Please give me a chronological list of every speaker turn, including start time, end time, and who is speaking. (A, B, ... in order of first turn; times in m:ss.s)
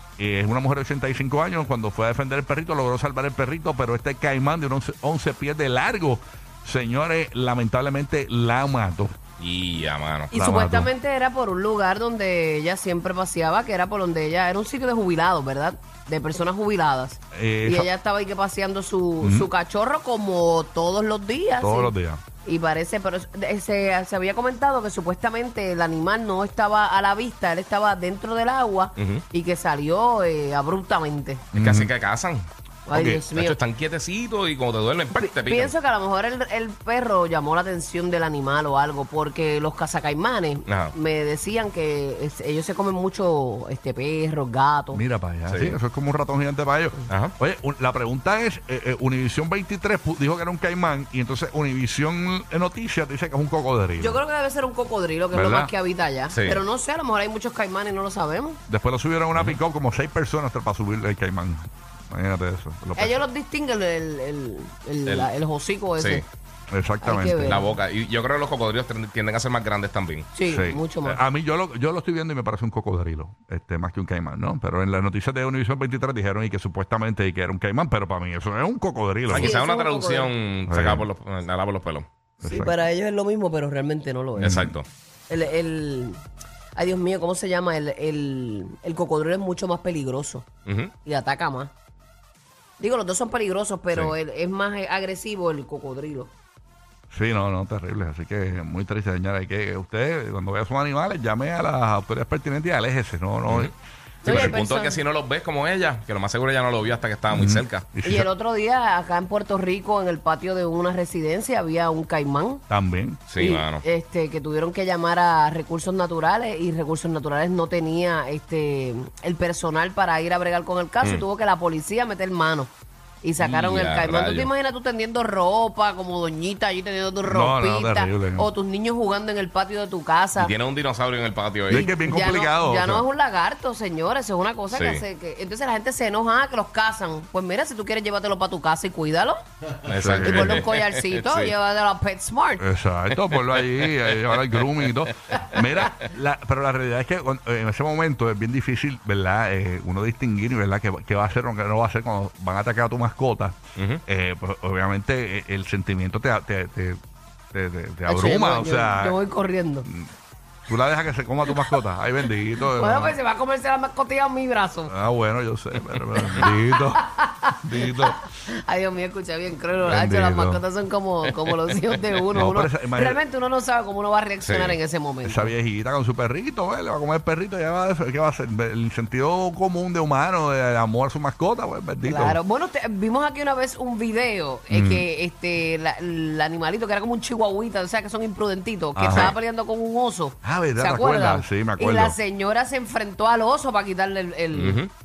0:00.2-0:09.2 A
0:09.4-0:10.3 B
0:10.3-0:31.4 C
0:10.3-0:10.9 A
0:17.3-0:17.9 A
0:19.2-0:19.5 A
0:21.6-0:22.2 A
0:29.0-0:29.2 B
0:31.5-0:31.9 A
0:31.5-0:32.5 B
0:32.9-0:33.6 C
0:32.9-0:33.3 A
0:33.3-0:35.7 B
0:35.1-0:45.0 C
0:40.7-0:40.9 B
0:44.9-0:54.2 A
0:45.5-0:45.8 B
0:47.1-0:47.3 B
0:54.0-0:58.6 C
0:55.3-0:55.7 A
0:56.3-0:56.6 B
0:58.7-1:03.2 A
1:03.0-1:06.2 C
1:05.1-1:05.3 B
1:06.0-1:06.3 B
1:06.7-1:07.6 A
1:07.0-1:07.7 C
1:07.4-1:10.3 B
1:10.3-1:11.2 C
1:10.5-1:19.6 A
1:19.3-1:22.1 B
1:19.3-1:20.3 C
1:20.7-1:21.1 A
1:22.4-1:22.8 A
1:22.4-1:24.7 C
1:24.4-1:24.8 A
1:24.4-1:24.9 B
1:25.3-1:26.2 C
1:26.8-1:30.5 C
1:30.7-1:30.9 B
1:31.0-1:31.7 C
1:32.8-1:36.3 C
1:37.1-1:43.7 A
1:43.5-1:43.7 B
1:44.2-1:45.0 C
1:44.2-1:44.6 A
1:44.2-1:47.9 B
1:47.3-1:48.3 A
1:48.0-1:52.6 C
1:52.7-1:53.2 A
1:53.3-1:53.8 B
1:53.4-2:02.7 C
2:03.2-2:10.5 C
2:03.4-2:04.5 B
2:07.2-2:08.5 A
2:10.4-2:11.9 B
2:11.7-2:13.0 A
2:11.7-2:19.4 C
2:14.7-2:15.0 B
2:19.9-2:21.5 B
2:19.9-2:20.6 A
2:20.2-2:22.6 C
2:22.6-2:37.0 A
2:23.1-2:25.0 B
2:33.8-2:34.0 B
2:37.5-2:39.2 A
2:38.1-2:39.9 C
2:40.7-2:43.2 A
2:42.7-2:44.9 C
2:44.9-2:47.0 A
2:45.8-2:46.4 B
2:46.4-2:55.5 C
2:47.6-2:48.2 A
2:49.8-2:50.6 A
2:52.3-2:53.2 A
2:54.4-2:54.8 B
2:55.2-3:02.4 A
3:02.0-3:14.8 C
3:04.7-3:05.1 A
3:09.0-3:09.4 A
3:10.4-3:12.2 A
3:14.5-3:14.9 B